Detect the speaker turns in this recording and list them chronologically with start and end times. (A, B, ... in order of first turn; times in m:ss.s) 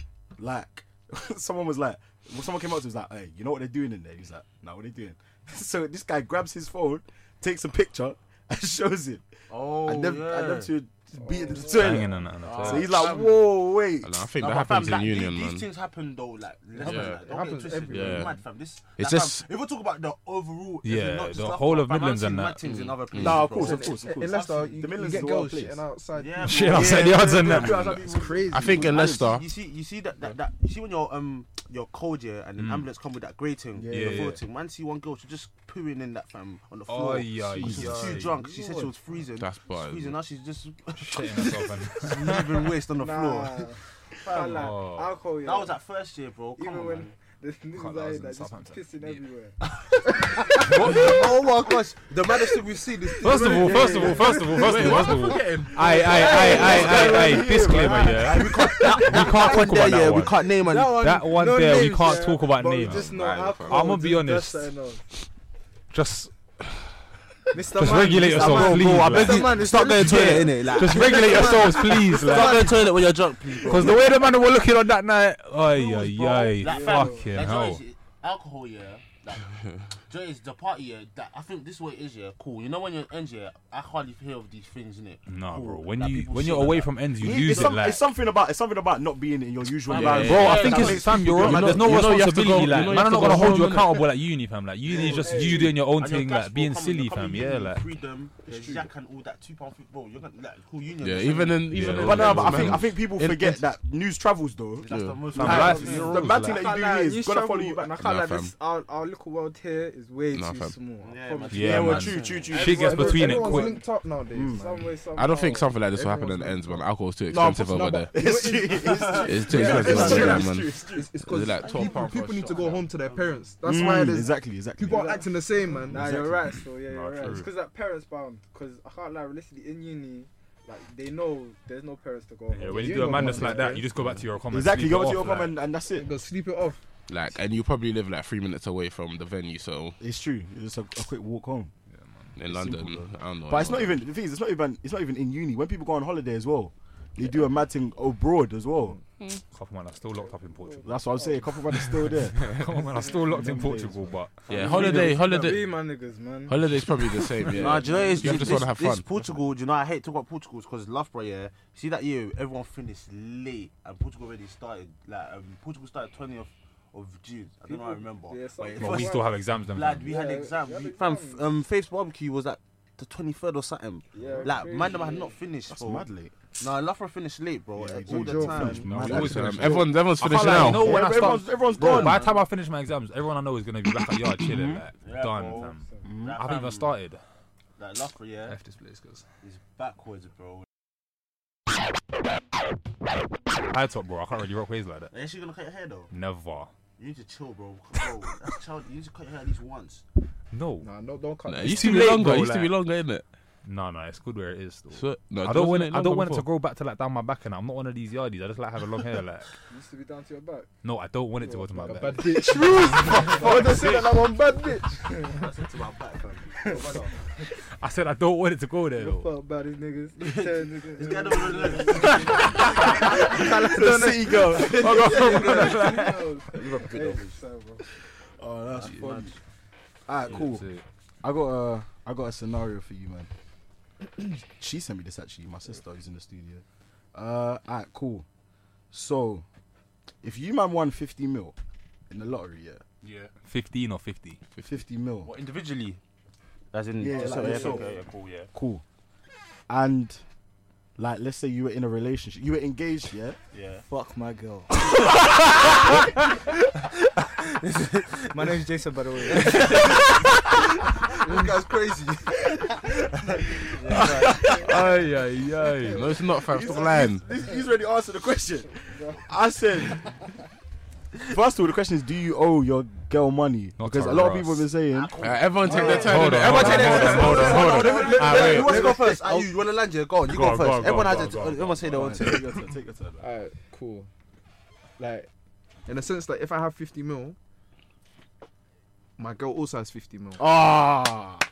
0:00.4-0:14.2 A
0:09.5-0:10.7 B
0:11.2-0:12.0 C
0:11.8-0:13.1 D
0:12.4-0:13.5 B
0:14.0-0:15.7 E
0:14.4-0:24.8 B
0:16.8-0:18.4 C
0:16.8-0:17.2 E
0:17.9-0:18.3 E
0:19.0-0:19.4 E
0:20.8-0:22.6 D
0:22.6-0:23.4 E
0:23.2-0:25.8 A
0:23.2-0:29.1 C
0:26.2-0:44.7 B
0:26.4-0:28.0 D
0:27.8-0:29.3 A
0:28.5-0:29.5 E
0:33.8-0:34.4 A
0:33.9-0:34.4 D
0:36.9-0:38.4 D
0:37.6-0:37.9 E
0:37.6-0:38.9 A
0:39.4-0:40.2 E
0:41.0-0:42.6 D
0:43.0-0:45.8 F
0:44.6-0:45.1 D
0:45.4-0:47.1 B
0:46.6-0:49.6 F
0:47.7-0:49.2 D
0:49.7-0:55.0 B
0:50.7-0:51.2 D
0:53.2-1:00.4 D
0:53.4-0:54.6 F
0:54.6-0:57.1 E
0:56.0-0:58.8 A
0:56.0-0:57.6 F
0:56.3-0:57.1 B
0:58.2-0:59.9 F
0:58.2-1:01.0 B
1:00.6-1:05.0 F
1:01.0-1:03.1 D
1:02.8-1:03.9 E
1:03.7-1:04.7 D
1:05.9-1:06.3 D
1:07.5-1:12.7 F
1:07.8-1:12.8 D
1:08.3-1:09.4 A
1:08.4-1:14.0 B
1:13.6-1:17.8 D
1:15.7-1:19.5 B
1:16.6-1:17.3 F
1:20.1-1:27.8 B
1:25.3-1:28.0 D
1:27.2-1:32.2 A
1:29.9-1:32.0 B
1:29.9-1:34.1 E
1:30.0-1:37.8 D
1:35.0-1:35.7 C
1:35.0-1:35.7 F
1:35.0-1:42.8 B
1:38.5-1:38.9 C
1:41.0-1:43.0 E
1:41.7-1:42.8 D
1:41.8-1:48.0 A
1:44.8-1:46.2 B
1:44.9-1:45.4 E
1:45.3-1:46.6 D
1:45.5-1:51.8 F
1:48.0-1:48.5 E
1:50.3-1:50.7 E
1:51.0-1:52.5 B
1:51.5-1:53.7 D
1:51.5-1:53.7 A
1:52.6-1:53.8 F
1:52.6-1:55.0 C
1:54.3-1:54.6 A
1:54.5-1:55.7 F
1:55.1-1:58.1 E
1:56.0-2:06.2 C
1:58.1-2:01.1 A
1:58.8-2:00.4 B
1:59.2-2:02.8 E
2:01.6-2:03.5 B
2:03.6-2:05.2 A
2:04.9-2:05.2 F
2:05.9-2:13.6 F
2:05.9-2:06.4 A
2:06.9-2:07.5 D
2:12.5-2:15.6 D
2:12.7-2:13.9 C
2:13.1-2:13.5 A
2:14.5-2:16.1 A
2:15.9-2:16.8 C
2:17.1-2:20.0 E
2:20.0-2:21.7 A
2:21.9-2:22.4 D
2:22.4-2:24.0 E
2:22.5-2:29.0 A
2:29.5-2:31.0 D
2:30.5-2:31.6 F
2:30.9-2:34.2 A
2:32.4-2:35.1 D
2:34.5-2:35.7 E
2:34.5-2:36.6 F
2:36.5-2:39.0 E
2:37.6-2:56.1 B
2:37.7-2:38.3 F
2:47.7-2:49.3 F
2:48.8-2:50.1 D
2:50.0-2:51.5 F
2:54.1-2:55.4 F
2:54.2-2:54.5 A
2:55.7-2:56.4 A
2:56.6-2:59.2 B
2:57.8-3:02.2 A
2:58.0-2:58.9 C
2:58.7-3:07.2 D
2:59.0-3:01.1 E
3:01.0-3:02.4 B
3:04.4-3:04.8 A
3:05.0-3:05.7 B
3:05.6-3:06.0 F
3:06.0-3:06.4 A
3:06.2-3:06.9 B
3:07.8-3:08.6 B
3:08.5-3:09.2 D
3:09.4-3:10.6 B
3:13.7-3:15.1 D
3:15.1-3:16.1 B
3:16.1-3:16.7 D
3:17.0-3:20.0 B
3:20.5-3:20.9 D
3:20.8-3:22.2 C
3:21.4-3:23.2 E
3:21.7-3:22.8 D
3:23.6-3:29.5 D
3:24.9-3:26.5 E
3:29.7-3:30.7 F
3:30.8-3:34.3 D
3:31.4-3:33.7 F
3:31.8-3:35.4 C
3:35.2-3:37.1 B
3:36.7-3:37.0 C
3:37.8-3:39.3 D
3:39.0-3:47.8 F
3:40.2-3:43.3 B
3:42.1-3:42.9 D
3:43.0-3:45.5 A
3:43.8-3:46.3 D
3:45.2-3:45.6 C
3:46.5-3:47.4 B
3:48.4-3:49.2 A
3:48.8-3:49.3 B
3:50.1-3:50.7 A
3:50.3-3:50.8 D
3:51.2-3:53.3 A
3:54.5-3:58.2 A
3:58.9-3:59.4 A
4:00.2-4:01.6 A
4:02.1-4:02.8 A
4:03.0-4:03.3 E
4:03.4-4:04.4 D
4:04.6-4:05.3 A
4:05.2-4:06.0 B
4:06.7-4:08.5 B
4:07.0-4:07.9 A
4:07.2-4:07.5 F
4:08.5-4:08.8 A
4:09.7-4:10.2 A
4:11.0-4:13.4 A
4:13.5-4:13.8 B
4:13.9-4:14.9 F
4:15.6-4:16.0 F
4:18.3-4:20.1 F
4:19.5-4:19.9 B
4:21.2-4:22.3 B
4:23.8-4:24.3 F
4:23.9-4:24.8 A
4:24.8-4:26.0 D
4:25.9-4:27.2 E
4:26.5-4:30.0 A
4:31.2-4:35.1 A
4:33.8-4:34.7 D
4:34.9-4:42.4 B
4:35.2-4:37.7 E
4:35.7-4:39.4 C
4:36.0-4:39.0 D
4:40.3-4:42.4 D
4:41.8-4:43.2 A
4:43.2-4:44.1 C
4:45.0-4:45.3 C
4:45.9-4:47.4 C
4:49.2-4:50.5 C
4:50.4-4:51.4 A